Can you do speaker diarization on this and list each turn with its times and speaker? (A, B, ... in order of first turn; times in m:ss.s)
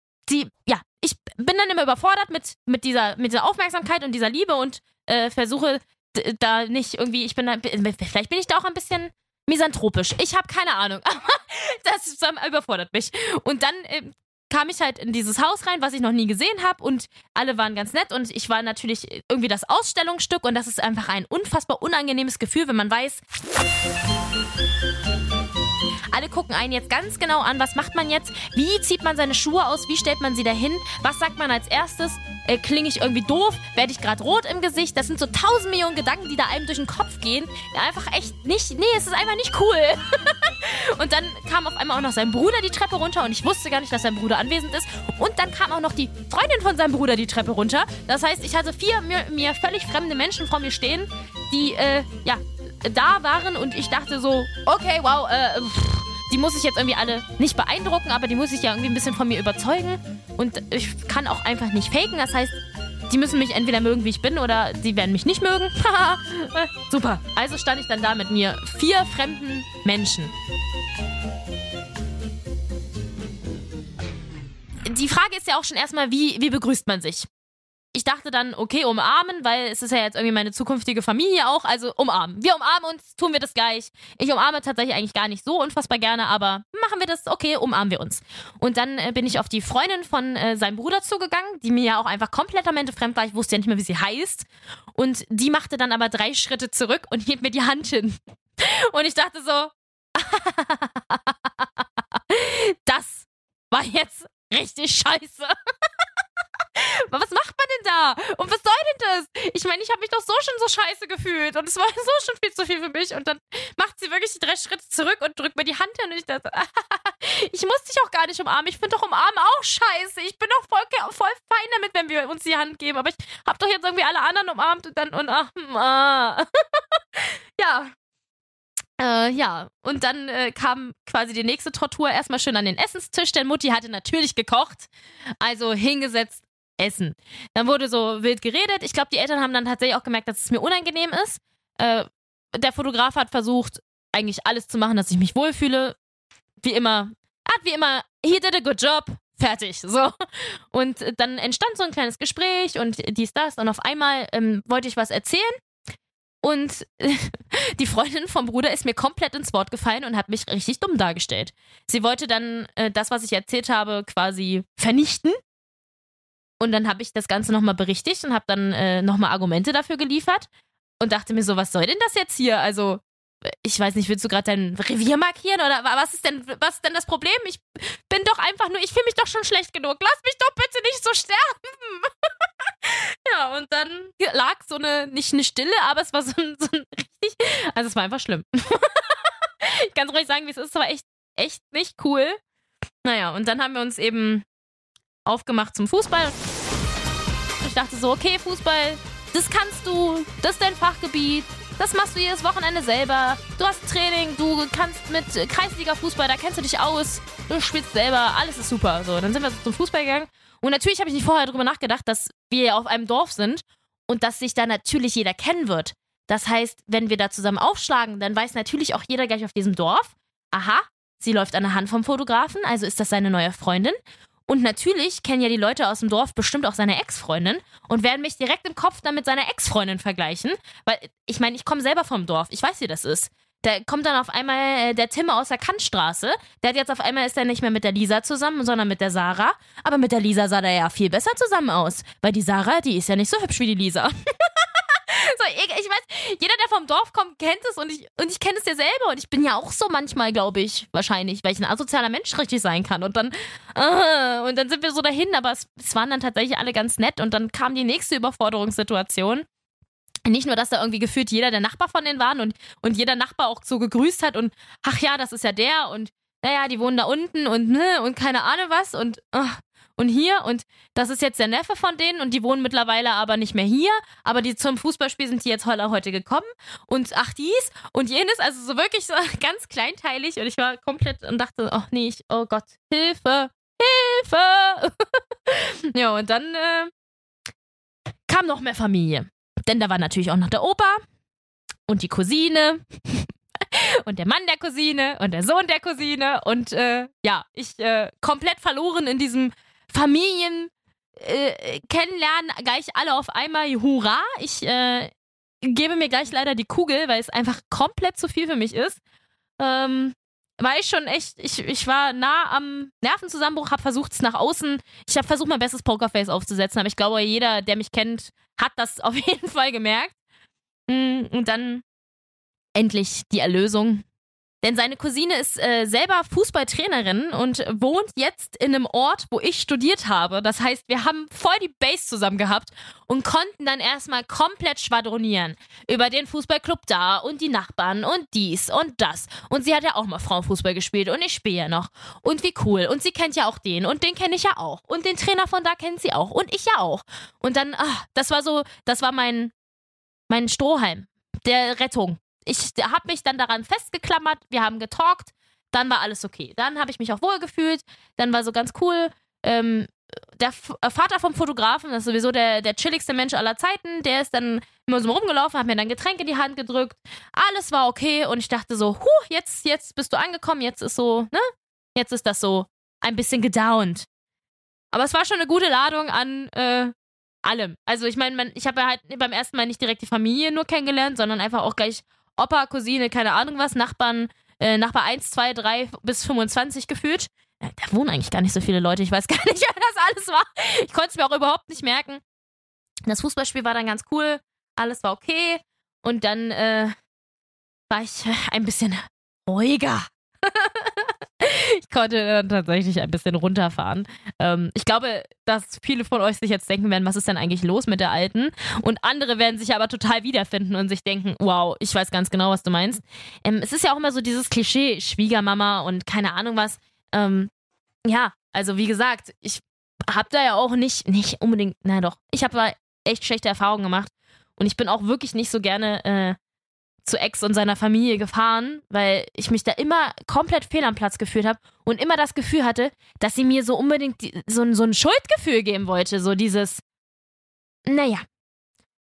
0:00.3-0:23.2 A
0:26.1-1:10.3 A
1:14.8-1:17.3 A
1:17.9-1:41.6 A
1:42.3-1:45.5 A
1:46.8-2:06.4 A
2:07.1-2:07.9 A
2:09.0-2:14.9 A
2:15.4-2:26.0 A
2:26.6-2:30.1 A
2:30.7-2:35.5 A
2:36.4-2:45.4 A
2:46.6-2:50.5 A
2:51.0-2:53.0 A
2:53.6-3:02.1 A
3:02.8-3:12.4 A
3:13.0-3:14.4 A
3:15.2-3:16.4 A
3:17.6-3:44.0 A
3:44.5-4:19.4 A
4:20.2-4:44.9 A
4:45.5-4:46.9 A
4:48.3-4:51.0 A
4:51.9-5:05.1 A
5:05.6-5:09.0 A
5:09.6-5:20.1 A
5:20.9-5:21.8 A
5:22.7-5:24.0 A
5:24.6-5:49.5 A
5:50.3-6:11.4 A
6:12.0-6:14.1 A
6:14.9-6:16.9 A
6:17.4-6:32.2 A
6:33.0-6:36.9 A
6:37.9-6:57.5 A
6:58.1-7:06.4 A
7:07.0-7:16.8 A
7:17.9-7:18.2 A